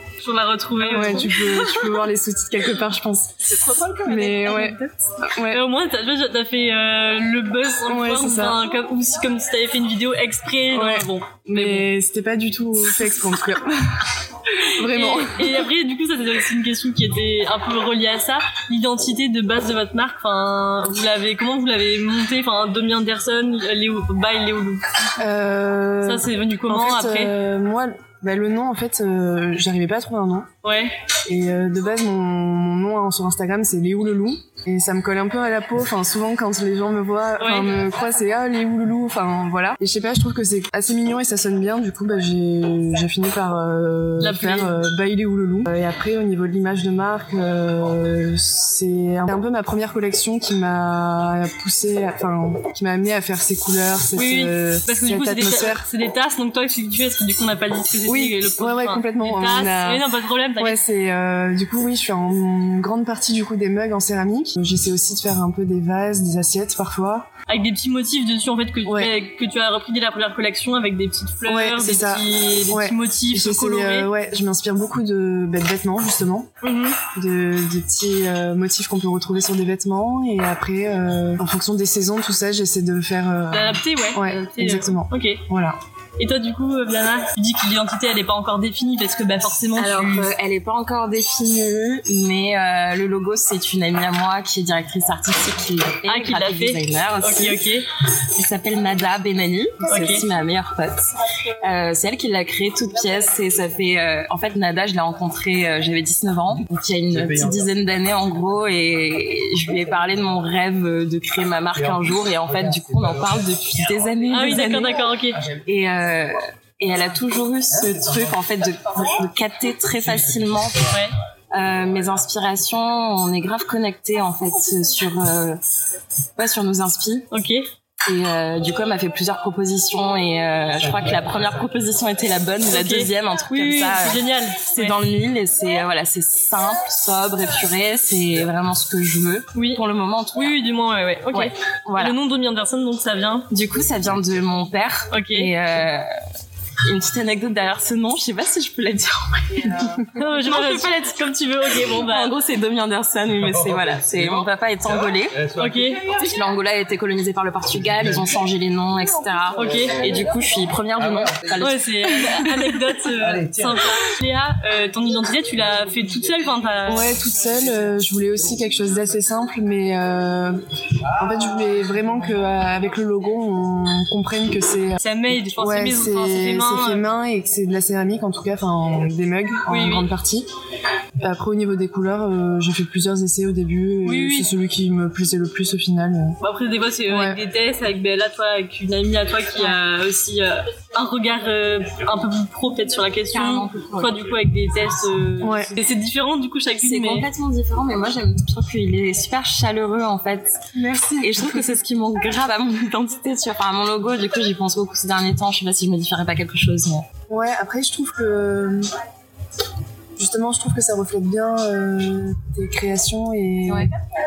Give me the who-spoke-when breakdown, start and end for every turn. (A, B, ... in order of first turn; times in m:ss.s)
0:00.2-0:01.9 A
0:00.8-0:03.4 B
0:03.4-0:05.2 C
0:04.0-0:05.6 B
0:05.5-0:11.9 A
0:07.9-0:08.6 B
0:10.7-0:15.6 B
0:14.9-0:24.9 A
0:25.2-0:30.5 B
0:26.0-0:27.3 A
0:30.6-0:30.9 A
0:31.3-0:55.9 B
0:37.4-0:37.7 A
0:44.2-0:44.8 A
0:54.2-1:00.8 A
0:58.1-1:07.3 B
1:07.5-1:14.1 A
1:08.9-1:09.2 B
1:11.5-1:16.5 B
1:16.6-1:17.0 A
1:17.1-1:25.8 B
1:23.5-1:25.4 A
1:26.2-1:30.3 A
1:29.8-1:37.6 C
1:36.1-1:37.9 A
1:38.4-2:00.9 C
1:39.9-1:40.2 A
1:54.3-1:55.4 A
2:01.5-2:05.6 C
2:06.4-2:07.3 C
2:07.3-2:07.6 A
2:08.1-2:20.6 C
2:12.7-2:15.0 A
2:19.5-2:19.8 A
2:20.4-2:23.5 A
2:21.3-2:22.2 C
2:23.5-2:26.1 C
2:25.1-2:25.5 A
2:26.8-2:42.8 C
2:30.1-2:32.3 A
2:35.6-2:36.0 A
2:39.6-2:40.0 A
2:41.6-2:47.2 A
2:46.9-2:50.6 B
2:51.2-3:00.5 B
2:55.0-2:57.0 A
2:59.7-3:00.1 A
3:01.2-3:06.4 B
3:04.0-3:04.5 A
3:06.4-3:17.3 A
3:07.1-3:07.4 B
3:13.3-3:14.2 C
3:15.4-3:15.8 B
3:16.8-3:20.6 C
3:20.7-3:21.6 B
3:21.2-3:27.1 C
3:27.3-3:28.9 B
3:30.2-3:33.9 B